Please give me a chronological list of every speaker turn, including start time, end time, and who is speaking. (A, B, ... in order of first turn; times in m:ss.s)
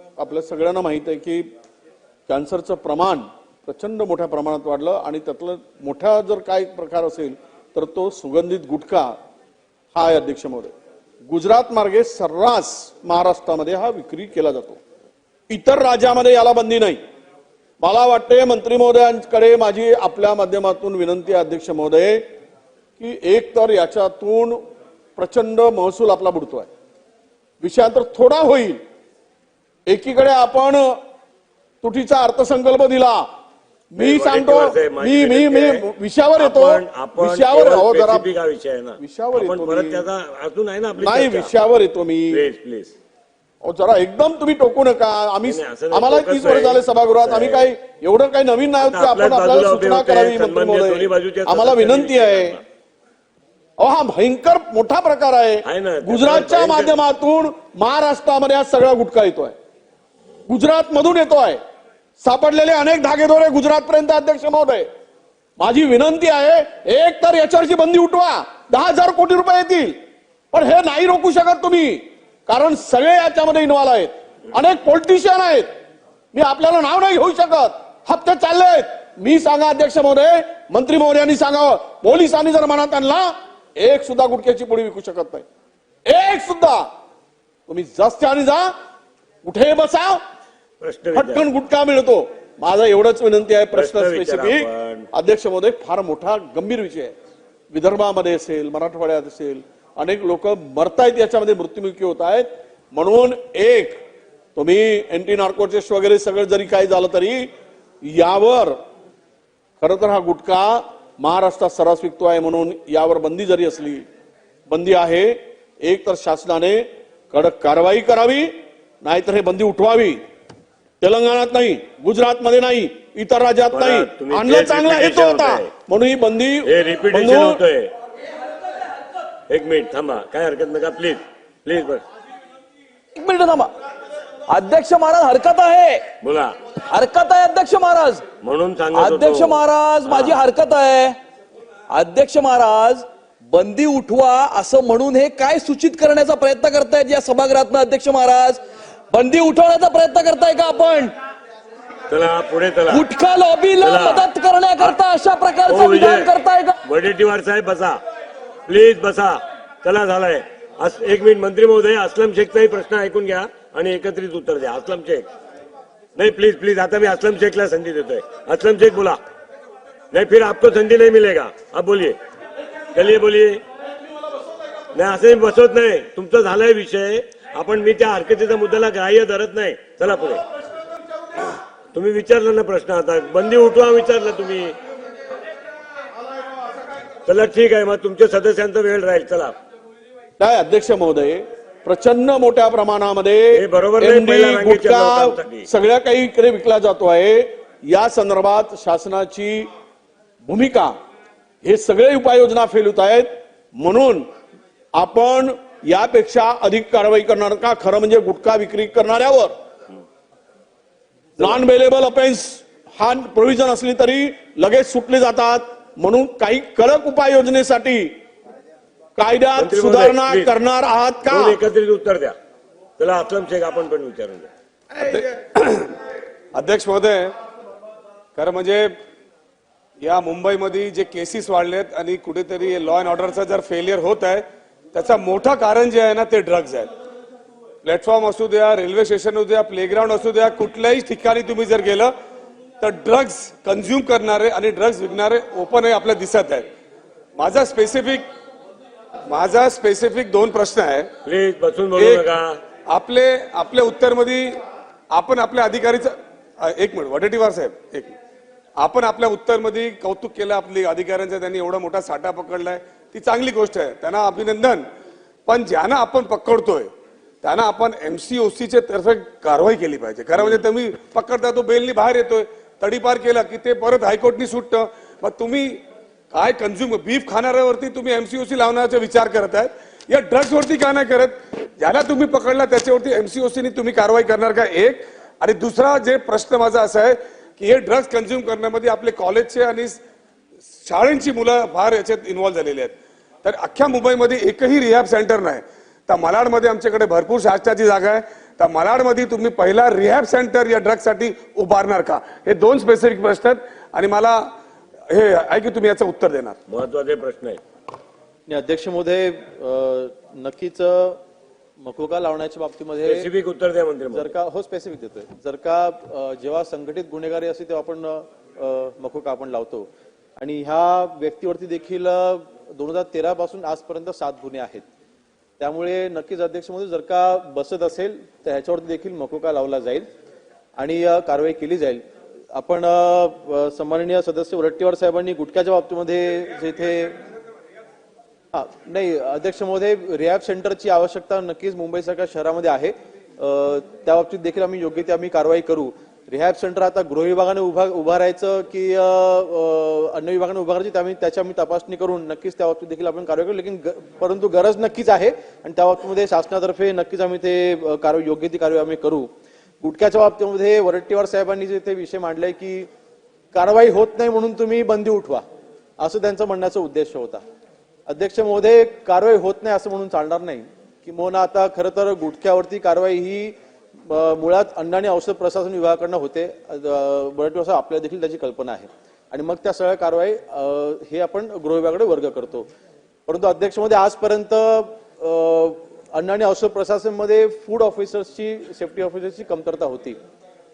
0:00.2-0:01.5 A
0:02.3-0:09.2 A
0:09.9-0:10.7 A
0:11.3-0:14.8 A
0:15.5-0:17.0 A
0:17.8-0:22.3 A
0:23.0-0:24.6 A
0:25.2-0:26.7 A
0:27.6-0:28.8 A
0:29.9-0:31.0 A
0:31.8-0:33.3 A
0:33.9-0:38.3 A
0:34.0-0:41.5 B
0:39.0-0:40.1 A
0:41.0-0:42.4 A
0:42.3-0:42.9 B
0:43.6-0:52.6 A
0:45.4-0:47.7 B
0:48.8-0:52.6 B
0:53.8-0:59.6 A
0:55.6-0:57.0 B
1:00.5-1:01.6 A
1:02.2-1:04.9 A
1:05.6-1:10.0 A
1:10.5-1:15.7 A
1:16.3-1:25.4 A
1:26.1-1:26.9 A
1:27.7-1:28.7 A
1:29.4-1:30.2 A
1:30.8-1:31.5 B
1:31.1-1:37.1 A
1:33.7-1:35.1 B
1:37.7-1:44.0 A
1:44.6-1:47.5 A
1:48.0-1:48.8 A
1:49.8-1:54.0 A
1:54.7-2:00.2 A
2:01.0-2:07.6 A
2:03.7-2:05.7 B
2:06.6-2:07.9 B
2:09.5-2:12.0 B
2:13.2-2:13.7 C
2:14.5-2:16.1 C
2:16.2-2:16.5 B
2:16.8-2:18.2 C
2:18.4-2:20.4 B
2:18.9-2:21.2 C
2:21.9-2:28.6 C
2:29.1-2:31.1 C
2:32.1-2:33.1 B
2:32.9-2:36.8 C
2:33.8-2:35.0 B
2:35.7-2:38.0 B
2:38.7-2:45.3 B
2:46.2-2:49.2 B
2:50.1-2:52.2 B
2:52.9-2:53.6 B
2:54.9-3:00.4 B
3:01.9-3:04.8 B
3:07.3-3:09.6 B
3:10.4-3:19.7 A
3:13.5-3:15.7 B
3:20.5-3:21.0 A
3:21.6-3:24.3 A
3:25.0-3:29.5 A
3:31.4-3:38.1 A
3:39.2-3:41.6 A
3:39.6-3:40.5 B
3:41.3-3:42.4 B
3:43.0-3:44.5 B
3:45.0-3:45.9 D
3:46.6-3:47.3 D
3:48.4-3:48.9 D
3:50.0-3:56.9 D
3:57.8-4:02.1 D
4:02.8-4:06.7 D
4:07.4-4:08.2 D
4:09.3-4:11.1 D
4:11.2-4:12.6 B
4:12.0-4:12.3 D
4:12.9-4:14.6 D
4:15.1-4:18.2 D
4:18.8-4:24.9 D
4:25.5-4:26.9 D
4:27.4-4:35.8 D
4:36.3-4:50.0 D
4:50.8-5:04.5 D
5:05.1-5:06.6 D
5:06.7-5:07.6 B
5:08.5-5:11.2 E
5:11.8-5:13.3 E
5:13.0-5:14.3 B
5:14.1-5:24.8 E
5:25.6-5:30.1 E
5:30.8-5:37.2 E
5:38.5-5:59.3 E
5:59.8-6:02.9 E
6:03.5-6:05.4 E
6:06.0-6:07.4 E
6:08.1-6:22.7 E
6:23.3-6:30.2 E